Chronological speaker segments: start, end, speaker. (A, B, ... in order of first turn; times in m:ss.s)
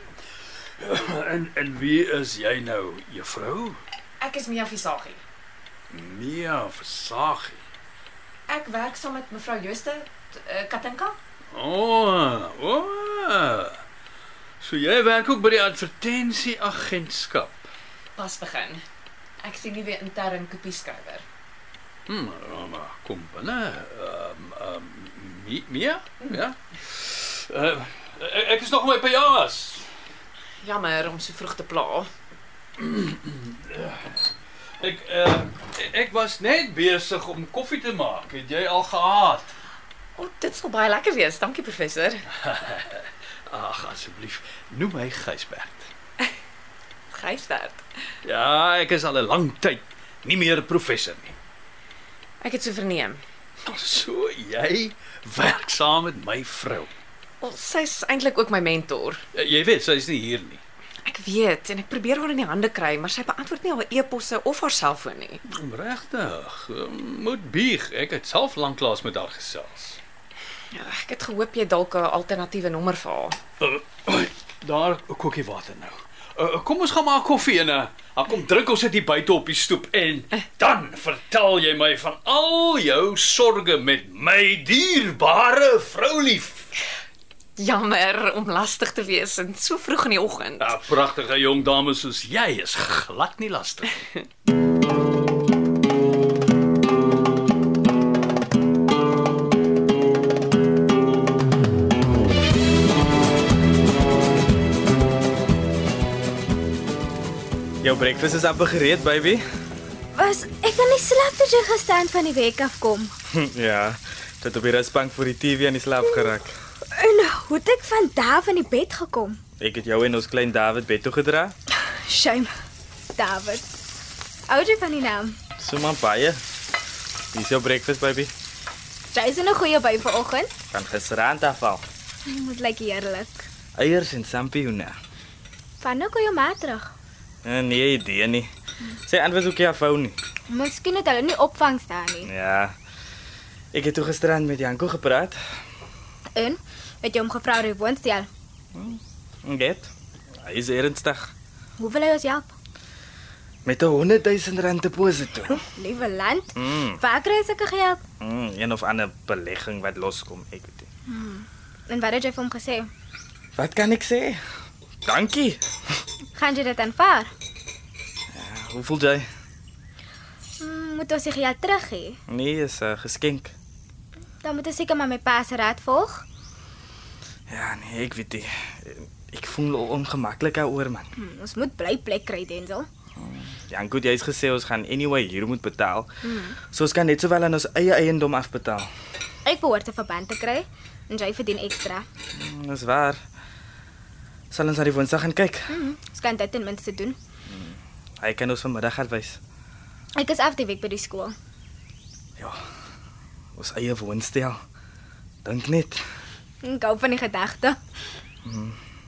0:00.8-0:03.8 A
0:04.2-0:05.2 B
0:05.9-0:07.6 A
0:08.5-0:11.2 B
0:11.5-0:13.8 A
0:14.6-0:17.7 A
0:18.2-0:18.8 B
0:19.4-0:21.2 B
0:22.1-0:29.8 A
0:30.6-0:32.1 B
0:32.8-0:34.2 A
0:34.8-0:39.5 A
0:40.2-0:42.2 B
0:42.4-0:45.9 A
0:47.1-0:47.8 B
0:48.2-0:51.4 A
0:52.4-0:53.2 B
0:53.6-0:56.9 A
0:57.4-0:59.2 B
0:59.3-1:00.6 A
1:01.0-1:05.4 B
1:05.5-1:10.0 A
1:10.7-1:13.4 B
1:13.6-1:26.7 A
1:27.6-1:30.7 B
1:30.6-1:34.1 A
1:47.8-1:49.4 C
1:50.1-1:53.1 D
1:53.4-1:56.5 C
1:56.9-1:59.4 D
1:59.6-2:01.5 C
2:01.8-2:02.5 D
2:03.1-2:03.6 D
2:04.5-2:05.4 D
2:05.6-2:06.4 C
2:07.3-2:08.3 C
2:09.1-2:10.5 D
2:10.7-2:11.8 C
2:12.2-2:13.4 D
2:13.8-2:15.0 C
2:15.8-2:16.9 D
2:17.4-2:18.5 C
2:19.0-2:20.2 C
2:20.5-2:22.3 D
2:22.2-2:22.7 C
2:23.7-2:25.4 C
2:26.3-2:28.3 D
2:28.7-2:29.9 C
2:30.4-2:31.3 C
2:31.8-2:32.5 D
2:33.6-2:35.6 C
2:35.6-2:38.0 D
2:36.6-2:37.0 C
2:38.2-2:40.9 C
2:41.1-2:42.9 D
2:43.6-2:44.4 C
2:45.0-2:45.6 C
2:46.3-2:47.3 D
2:48.3-2:49.2 C
2:50.6-2:52.2 D
2:52.3-2:53.5 C
2:54.4-2:56.2 D
2:57.5-3:01.1 C
3:01.2-3:02.9 D
3:03.2-3:06.1 C
3:06.2-3:06.6 D
3:06.6-3:08.9 C
3:09.4-3:12.1 D
3:12.4-3:13.2 C
3:14.5-3:15.7 C
3:15.7-3:17.2 D
3:17.5-3:19.4 C
3:20.2-3:21.4 D
3:23.6-3:24.6 C
3:25.4-3:26.0 C
3:26.6-3:27.8 D
3:28.4-3:28.8 C